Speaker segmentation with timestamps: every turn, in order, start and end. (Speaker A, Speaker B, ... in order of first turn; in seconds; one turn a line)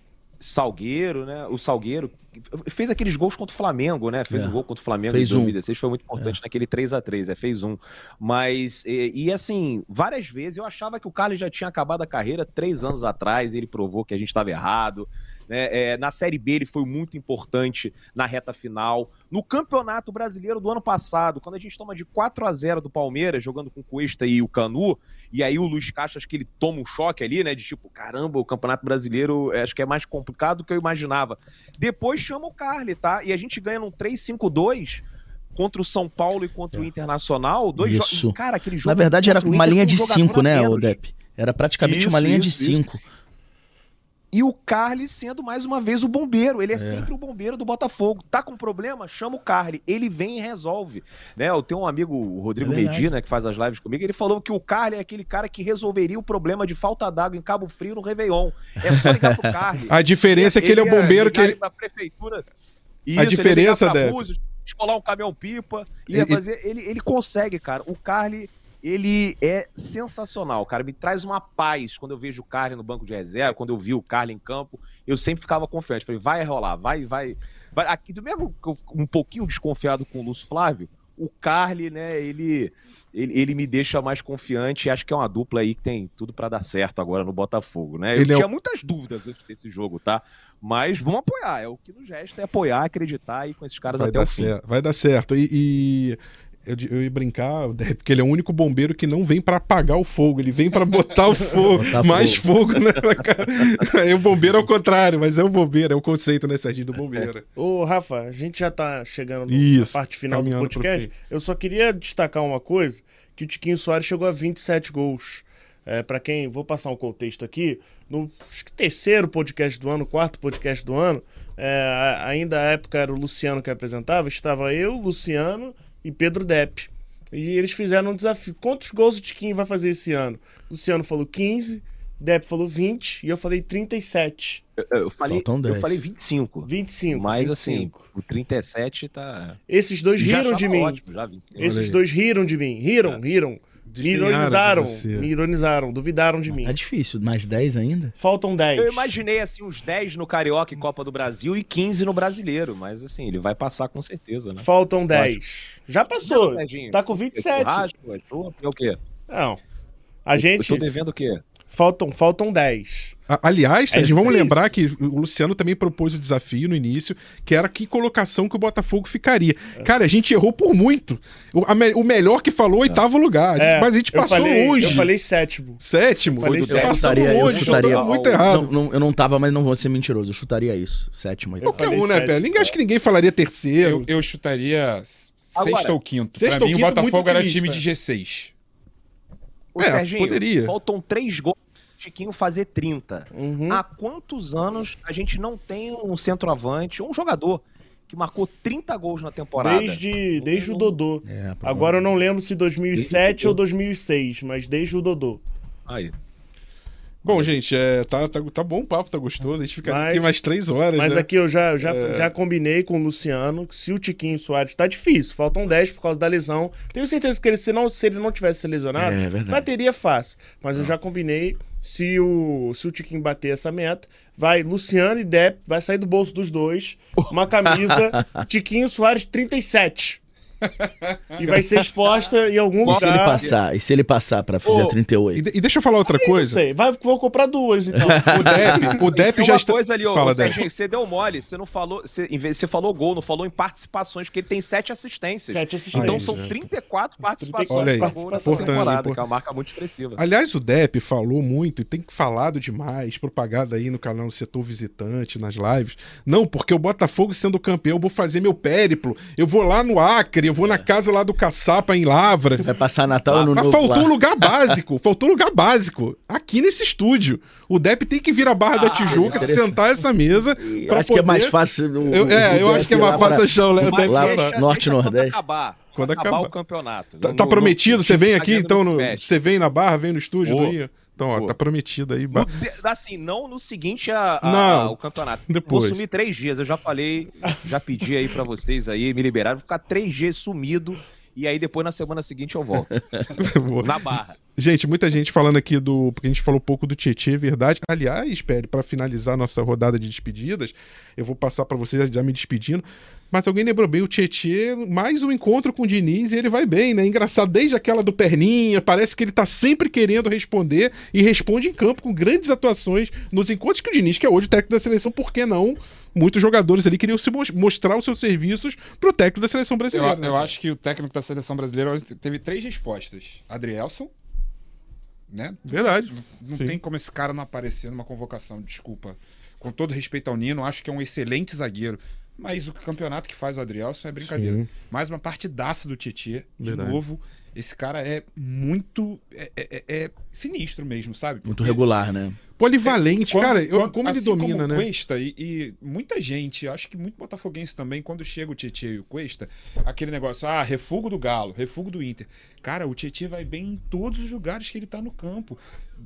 Speaker A: 0.4-41.0
Speaker B: 4.3-4.6
Speaker B: 5.1-5.5
Speaker B: 37.8-43.0
Speaker A: 41.8-42.9
Speaker A: 44.3-62.4
Speaker B: 46.7-47.1
Speaker B: 52.6-53.1
Speaker B: 58.9-59.5
Speaker C: 59.9-61.6
Speaker A: 63.1-94.5
Speaker C: 63.1-64.2
Speaker C: 66.1-66.4
Speaker C: 88.1-88.5
Speaker C: 93.9-107.4
Speaker B: 101.7-102.4
Speaker D: 107.5-134.6
Speaker C: 109.5-111.1
Speaker A: 134.8-139.6
Speaker B: 135.2-135.9
Speaker D: 136.7-138.1
Speaker D: 139.7-141.0
Speaker A: 140.2-141.8
Speaker D: 141.6-146.7
Speaker C: 141.6-142.0
Speaker C: 143.9-145.3
Speaker B: 146.5-148.1
Speaker D: 148.2-149.2
Speaker A: 148.8-154.7
Speaker D: 154.6-157.9
Speaker A: 156.2-159.0
Speaker D: 159.3-159.6
Speaker D: 160.2-161.0
Speaker A: 160.3-161.4
Speaker D: 161.6-163.2
Speaker C: 163.3-175.1
Speaker D: 163.9-164.7
Speaker D: 173.6-175.8
Speaker C: 175.8-178.7
Speaker D: 176.3-177.8
Speaker B: 176.7-181.9
Speaker A: 176.7-178.6
Speaker D: 181.6-182.7
Speaker C: 181.6-184.2
Speaker E: 183.8-188.5
Speaker A: 185.6-185.9
Speaker C: 186.3-187.8
Speaker A: 189.7-200.9
Speaker C: 189.8-190.7
Speaker D: 193.3-193.8
Speaker D: 199.6-205.4
Speaker B: 201.2-202.0
Speaker A: 202.9-203.6
Speaker A: 205.9-206.1
Speaker C: 207.2-211.3
Speaker D: 209.8-210.3
Speaker D: 210.9-230.2
Speaker C: 211.8-212.3
Speaker B: 219.0-219.7
Speaker B: 228.1-228.4
Speaker E: 230.8-231.1
Speaker D: 231.4-233.5
Speaker A: 232.8-233.5
Speaker B: 232.8-235.4
Speaker D: 234.6-235.0
Speaker C: 235.3-236.6
Speaker D: 236.1-239.0
Speaker B: 237.9-238.9
Speaker C: 238.2-240.6
Speaker A: 239.0-250.2
Speaker D: 245.5-246.5
Speaker C: 245.9-246.5
Speaker D: 247.4-249.0
Speaker C: 247.7-249.2
Speaker C: 250.2-262.7
Speaker B: 262.6-264.8
Speaker C: 263.3-274.6
Speaker A: 268.7-269.6
Speaker B: 269.0-269.8
Speaker B: 270.6-275.4
Speaker A: 272.8-279.3
Speaker C: 275.9-276.5
Speaker C: 277.2-282.5
Speaker A: 280.4-281.6
Speaker A: 282.3-294.4
Speaker C: 284.4-285.0
Speaker C: 285.5-286.0
Speaker C: 293.4-320.5
Speaker E: 319.9-324.1
Speaker E: 325.3-341.8
Speaker C: 325.6-326.8
Speaker C: 334.2-334.7
Speaker C: 336.6-337.0
Speaker B: 341.4-342.4
Speaker C: 342.6-344.9
Speaker E: 342.8-355.6